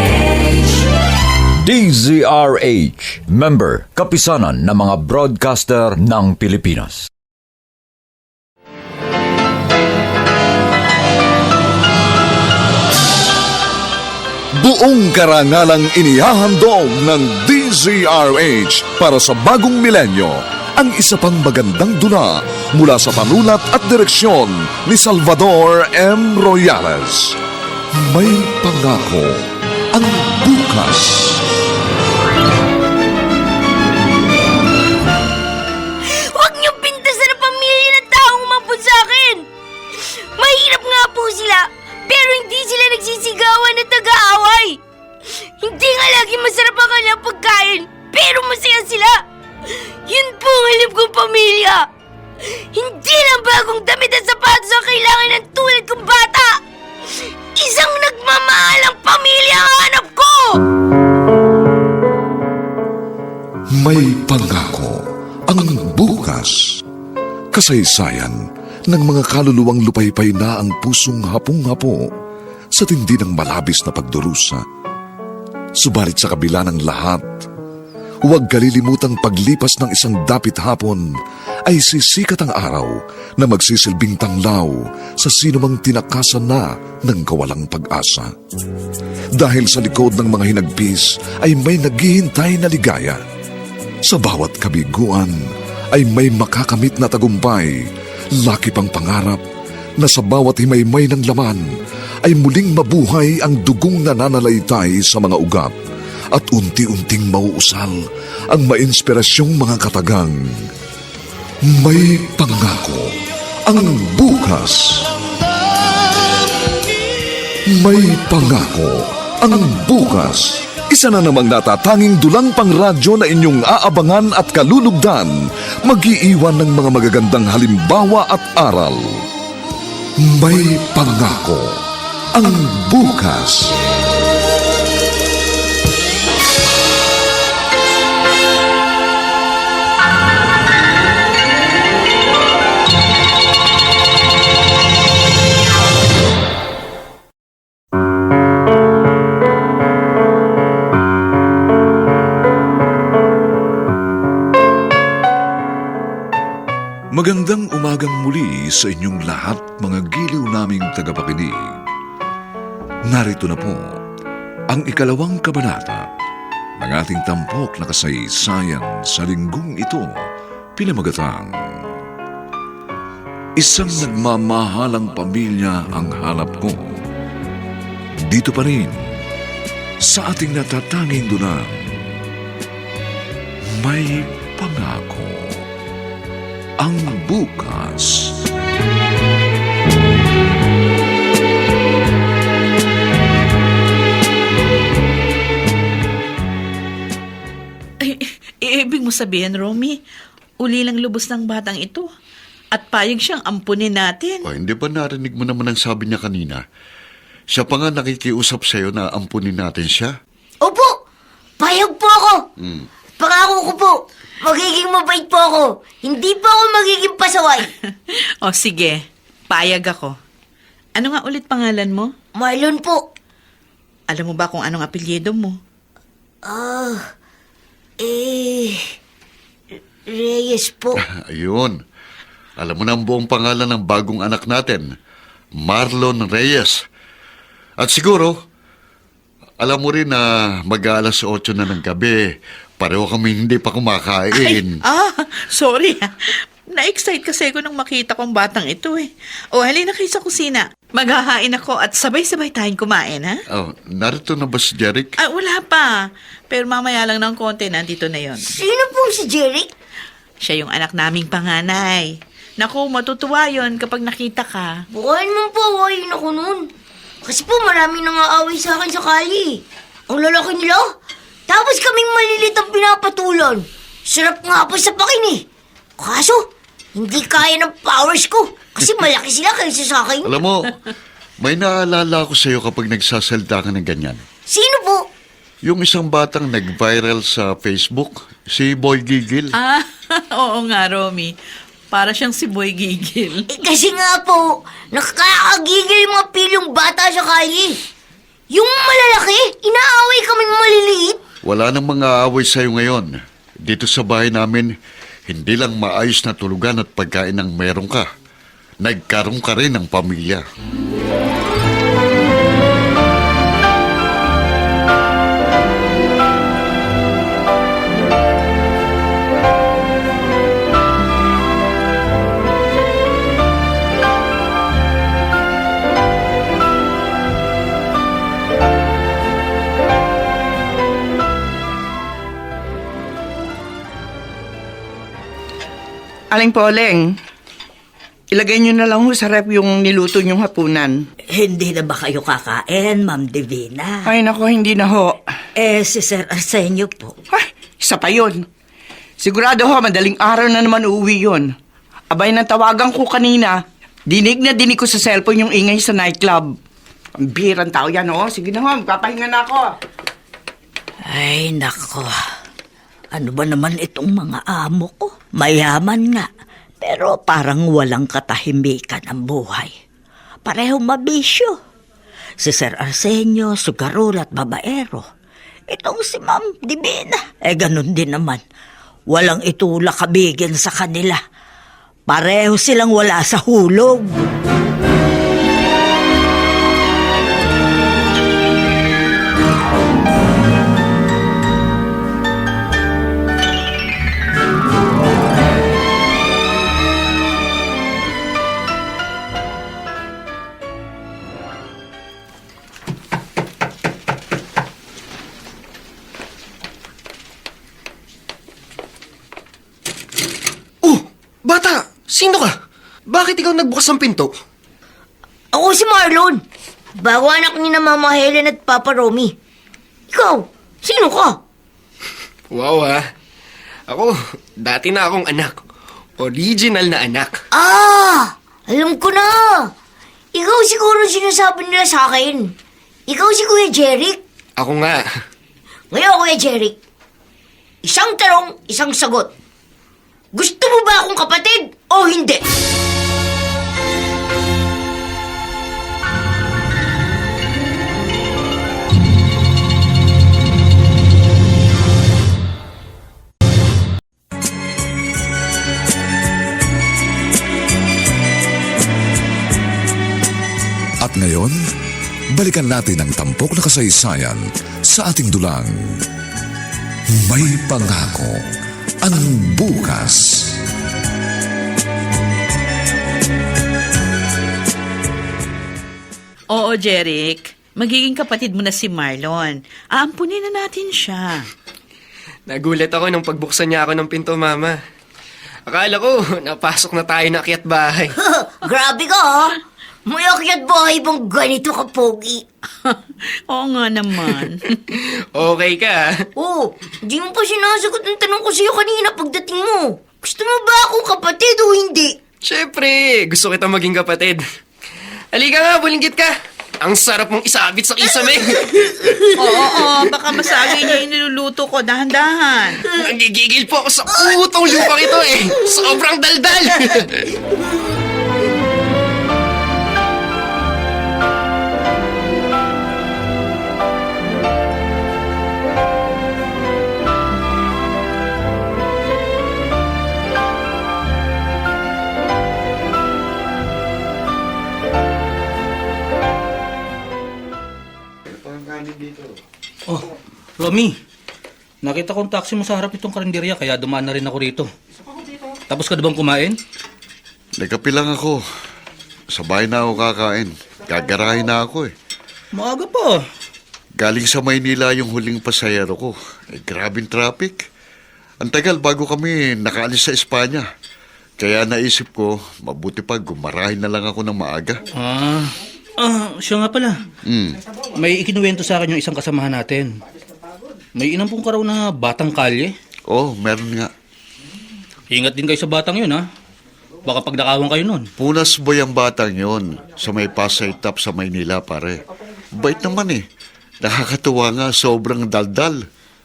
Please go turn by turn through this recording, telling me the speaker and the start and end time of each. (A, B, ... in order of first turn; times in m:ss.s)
0:01.6-0:07.1 A
0:14.6-0:27.4 B
0:28.0-0:31.4 B
0:36.3-0:39.5 C
0:40.4-0:44.8 C
0:45.6-0:49.2 C
0:50.1-0:51.9 C
0:52.7-0:56.6 C
0:57.6-1:00.6 C
1:03.7-1:06.8 B
1:07.5-1:08.4 B
1:08.9-1:12.1 B
1:12.7-1:14.6 B
1:15.8-1:17.2 B
1:18.3-1:21.1 B
1:21.7-1:28.3 B
1:29.4-1:33.2 B
1:34.0-1:35.4 B
1:35.9-1:37.8 B
1:38.4-1:39.4 B
1:40.0-1:41.7 B
1:42.2-1:45.7 B
1:46.3-1:50.4 B
1:51.6-1:53.1 B
1:53.7-1:55.1 B
1:57.7-2:09.2 B
2:10.2-2:11.8 B
2:12.3-2:13.8 B
2:37.1-2:41.8 B
2:43.1-2:44.0 B
2:44.7-2:46.0 B
2:46.8-2:50.1 B
2:50.8-2:51.9 B
2:53.6-2:56.9 B
2:58.3-2:59.0 B
3:00.0-3:02.1 B
3:03.8-3:05.7 B
3:06.8-3:08.4 B
3:18.0-3:20.0 D
3:20.6-3:22.1 D
3:22.7-3:24.4 D
3:24.5-3:26.6 E
3:27.5-3:30.1 E
3:30.6-3:31.0 C
3:31.6-3:32.4 C
3:33.2-3:37.6 C
3:38.4-3:39.0 D
3:39.5-3:40.1 D
3:41.0-3:42.1 D
3:42.4-3:43.0 C
3:44.1-3:45.6 D
3:46.4-3:47.0 C
3:48.0-3:48.8 C
3:50.1-3:51.0 C
3:51.0-3:51.8 E
3:52.6-3:54.8 E
3:55.6-3:56.8 E
3:57.8-3:58.3 E
3:59.6-4:02.2 E
4:02.8-4:04.7 E
4:04.4-4:13.4 D
4:13.5-4:15.1 E
4:15.2-4:15.9 D
4:16.5-4:18.5 D
4:18.4-4:19.7 C
4:20.4-4:24.8 D
4:24.9-4:26.7 C
4:27.2-4:30.9 C
4:31.5-4:35.4 C
4:36.0-4:40.4 C
4:40.2-4:40.7 E
4:41.4-4:44.2 E
4:44.5-4:45.1 C
4:45.6-4:49.5 E
4:49.6-4:51.3 D
4:51.9-4:53.5 D
4:53.5-4:57.8 C
4:58.5-5:01.2 C
5:01.4-5:03.1 E
5:03.6-5:04.7 E
5:05.3-5:08.1 E
5:08.8-5:10.4 E
5:36.3-5:37.2 F
5:38.3-5:41.1 F
5:41.3-5:44.1 G
5:44.0-5:45.2 F
5:45.6-5:47.1 G
5:47.3-5:48.5 F
5:49.2-5:51.6 F
5:52.1-5:56.6 F
5:57.2-5:59.8 F
6:01.1-6:02.2 G
6:03.1-6:06.3 G
6:06.8-6:09.7 G
6:10.4-6:11.6 G
6:12.4-6:15.1 G
6:15.7-6:18.4 G
6:19.1-6:21.2 G
6:22.1-6:24.3 G
6:50.8-6:52.5 H
6:53.1-6:54.3 H
6:55.5-6:56.4 C
6:57.0-6:59.3 C
7:00.1-7:01.4 C
7:02.5-7:03.0 H
7:03.9-7:05.6 H
7:06.2-7:07.4 H
7:07.5-7:09.7 C
7:10.3-7:12.5 C
7:13.1-7:14.2 C
7:14.6-7:15.0 H
7:15.9-7:16.8 C
7:17.8-7:19.3 C
7:20.3-7:22.4 C
7:41.0-7:41.6 B
7:42.3-7:46.0 B
7:47.2-7:48.4 B
7:49.0-7:50.6 B
7:56.5-8:01.5 D
8:02.5-8:04.8 H
8:05.7-8:08.1 H
8:08.2-8:09.5 C
8:10.1-8:12.4 C
8:13.5-8:14.7 D
8:14.9-8:16.1 H
8:16.4-8:22.2 C
8:22.4-8:24.4 H
8:25.3-8:29.0 H
8:29.4-8:32.9 D
8:33.0-8:37.1 H
8:58.3-8:59.3 E
8:59.9-9:00.9 I
9:01.8-9:04.7 I
9:05.7-9:06.6 I
9:07.6-9:08.4 E
9:09.3-9:11.9 E
9:12.5-9:13.2 I
9:14.0-9:17.6 E
9:18.4-9:20.6 E
9:21.4-9:24.8 E
9:25.0-9:26.9 I
9:27.3-9:27.6 E
9:28.0-9:30.0 I
9:31.0-9:32.7 I
9:33.1-9:33.9 E
9:35.1-9:36.2 I
9:37.0-9:38.1 I
9:38.2-9:42.0 E
9:42.5-9:43.2 E
9:43.8-9:45.8 E